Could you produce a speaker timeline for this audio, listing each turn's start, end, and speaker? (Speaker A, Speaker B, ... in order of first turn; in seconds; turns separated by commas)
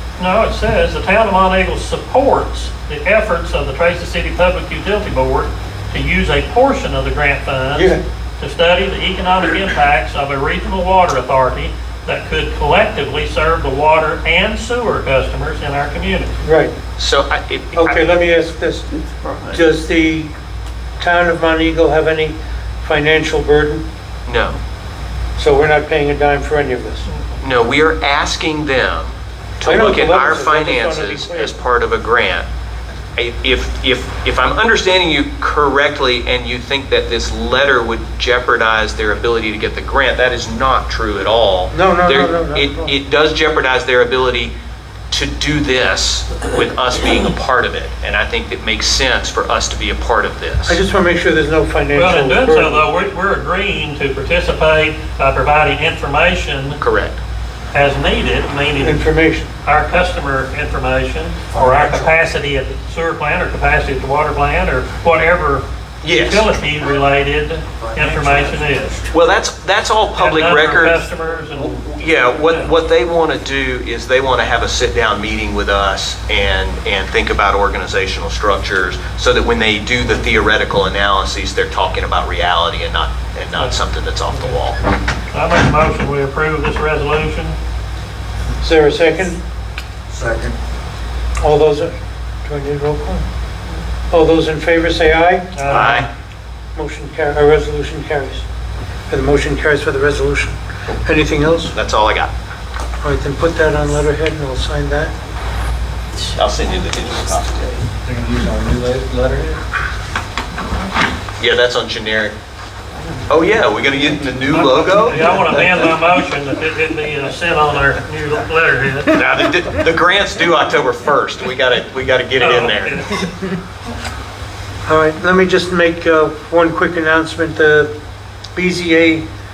Speaker A: 0.2-16.4, Speaker B: 7.7-8.0, Speaker B: 16.4-16.7, Speaker C: 17.0-18.0, Speaker B: 17.7-18.9, Speaker C: 19.2-19.5, Speaker B: 19.5-20.3, Speaker B: 21.0-23.8, Speaker C: 24.3-24.6, Speaker B: 25.4-27.1, Speaker C: 27.4-32.5, Speaker B: 29.6-31.5, Speaker C: 33.1-44.5, Speaker B: 41.7-42.9, Speaker C: 45.1-50.8, Speaker B: 50.7-52.9, Speaker A: 51.9-56.8, Speaker C: 56.8-57.2, Speaker A: 57.7-59.0, Speaker B: 58.8-59.5, Speaker A: 59.6-69.0, Speaker C: 66.0-66.5, Speaker D: 68.0-68.4, Speaker C: 69.1-71.0, Speaker A: 70.2-71.8, Speaker C: 71.6-84.8, Speaker A: 72.4-72.7, Speaker A: 84.3-84.6, Speaker A: 85.3-87.5, Speaker B: 88.6-89.4, Speaker D: 90.2-90.5, Speaker B: 91.4-91.9, Speaker B: 92.4-93.2, Speaker B: 94.1-95.5, Speaker A: 95.5-96.1, Speaker C: 95.7-96.1, Speaker B: 96.7-98.4, Speaker B: 99.1-101.7, Speaker C: 101.7-102.3, Speaker B: 103.0-105.1, Speaker C: 106.3-107.8, Speaker D: 108.0-109.6, Speaker C: 111.4-112.3, Speaker C: 113.3-115.6, Speaker A: 114.5-119.2, Speaker C: 119.1-123.0, Speaker A: 122.4-123.3, Speaker B: 124.8-127.9, Speaker B: 128.5-129.2